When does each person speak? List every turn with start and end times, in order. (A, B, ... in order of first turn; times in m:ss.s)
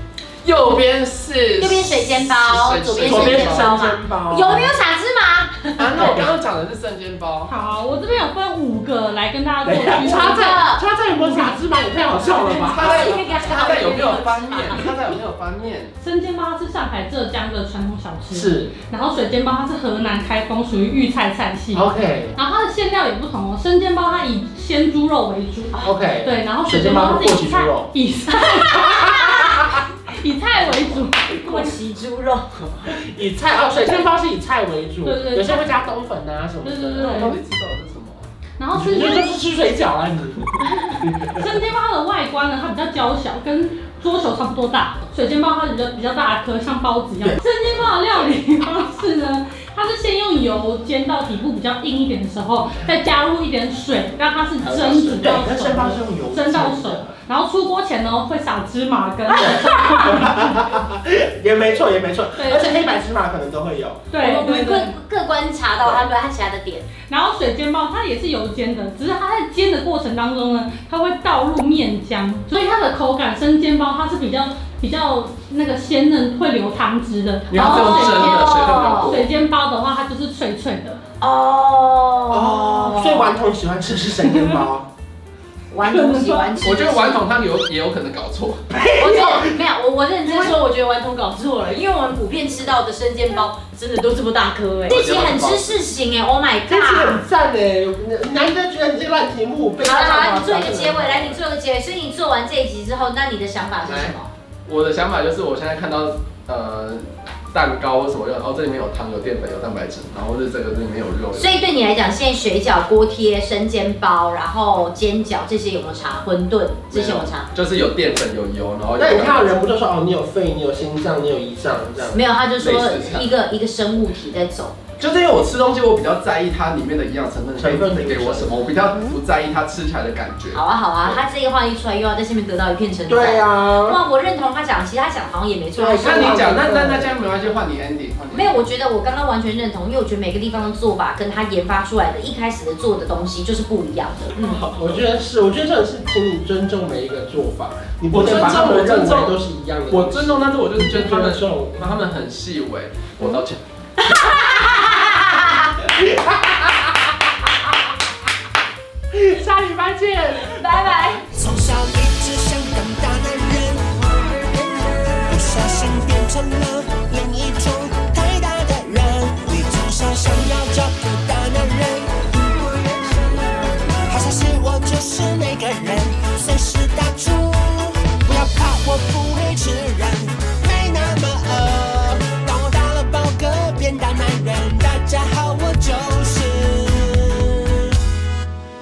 0:00.4-0:03.7 A
0:01.6-0:06.3 B
0:03.0-0:04.8 C
0:05.8-0:07.5 A
0:05.9-0:06.3 C
0:07.5-0:10.5 D
0:09.6-0:13.1 C
0:10.0-0:10.8 B
0:11.1-0:12.7 D
0:12.5-0:15.9 A
0:12.7-0:14.9 B
0:16.0-0:31.7 D
0:18.3-0:18.7 C
0:21.7-0:22.4 C
0:25.7-0:26.0 B
0:25.8-0:27.9 C
0:28.8-0:29.6 C
0:31.3-0:32.7 B
0:32.8-0:37.4 C
0:35.0-0:35.8 D
0:36.6-0:37.4 D
0:37.0-0:38.3 A
0:38.6-0:39.2 D
0:38.7-0:41.4 C
0:40.7-1:00.6 D
0:54.6-0:57.1 C
0:59.3-1:04.0 C
1:02.4-1:02.8 D
1:04.1-1:04.9 D
1:04.2-1:06.9 B
1:07.1-1:21.0 D
1:17.5-1:19.3 A
1:17.5-1:19.2 B
1:21.2-1:23.3 B
1:22.3-1:24.9 C
1:25.7-1:27.2 B
1:25.9-1:26.5 C
1:26.6-1:28.6 A
1:28.7-1:29.6 C
1:29.0-1:37.2 B
1:30.2-1:30.6 C
1:34.9-1:35.8 A
1:36.7-1:41.4 C
1:39.8-1:44.3 B
1:43.8-1:44.1 A
1:44.7-1:51.5 A
1:51.3-1:57.5 B
1:56.9-1:59.6 A
1:59.0-2:02.2 C
2:02.0-2:04.8 B
2:02.6-2:03.3 A
2:05.0-2:10.6 A
2:07.6-2:08.5 C
2:10.5-2:16.6 B
2:13.1-2:14.0 C
2:15.7-2:17.1 C
2:16.0-2:18.6 A
2:18.3-2:24.6 B
2:24.3-2:25.0 A
2:24.8-2:31.9 C
2:28.1-2:33.6 A
2:34.0-2:35.7 B
2:36.0-2:37.1 C
2:39.1-2:40.6 C
2:40.5-2:41.2 B
2:41.3-2:43.9 E
2:44.6-2:52.5 E
2:54.1-3:07.9 E